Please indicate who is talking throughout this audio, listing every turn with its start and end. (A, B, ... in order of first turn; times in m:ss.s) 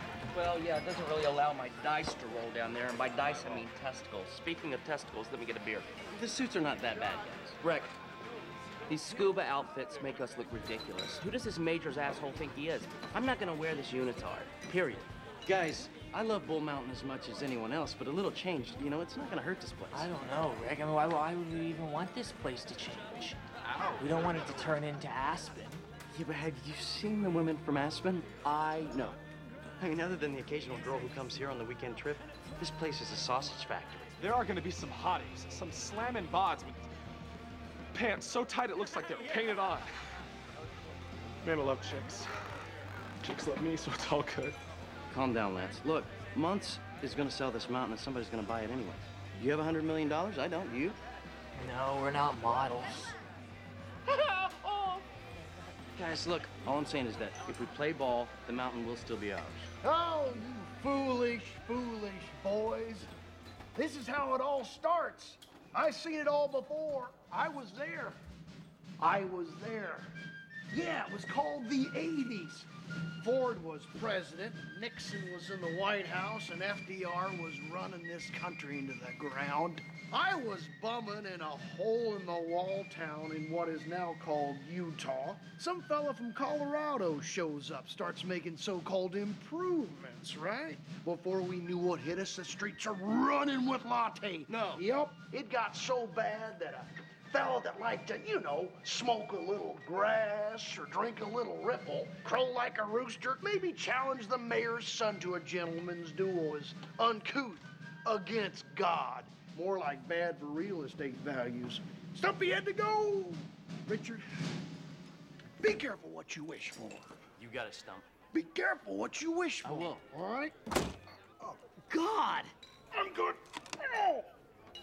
0:00.3-0:05.9 A
0:03.0-0:03.7 B
0:06.1-0:07.6 B
0:07.6-0:07.9 A
0:08.9-0:13.0 A
0:10.2-0:20.1 B
0:19.9-0:23.4 C
0:24.0-0:25.8 C
0:26.1-0:29.2 B
0:29.8-0:34.1 B
0:34.2-0:36.8 D
0:37.9-0:39.9 D
0:41.4-0:42.3 D
0:43.2-0:44.6 D
0:45.1-0:51.0 B
0:51.6-0:53.2 C
0:56.0-0:59.7 B
0:59.8-1:03.1 E
1:03.8-1:08.2 E
1:09.0-1:10.1 E
1:10.7-1:12.7 E
1:13.2-1:54.2 E
1:34.5-1:34.8 B
1:55.6-1:57.1 E
1:57.4-1:58.1 B
1:58.3-2:00.5 E
1:59.6-2:00.0 B
2:01.4-2:04.3 E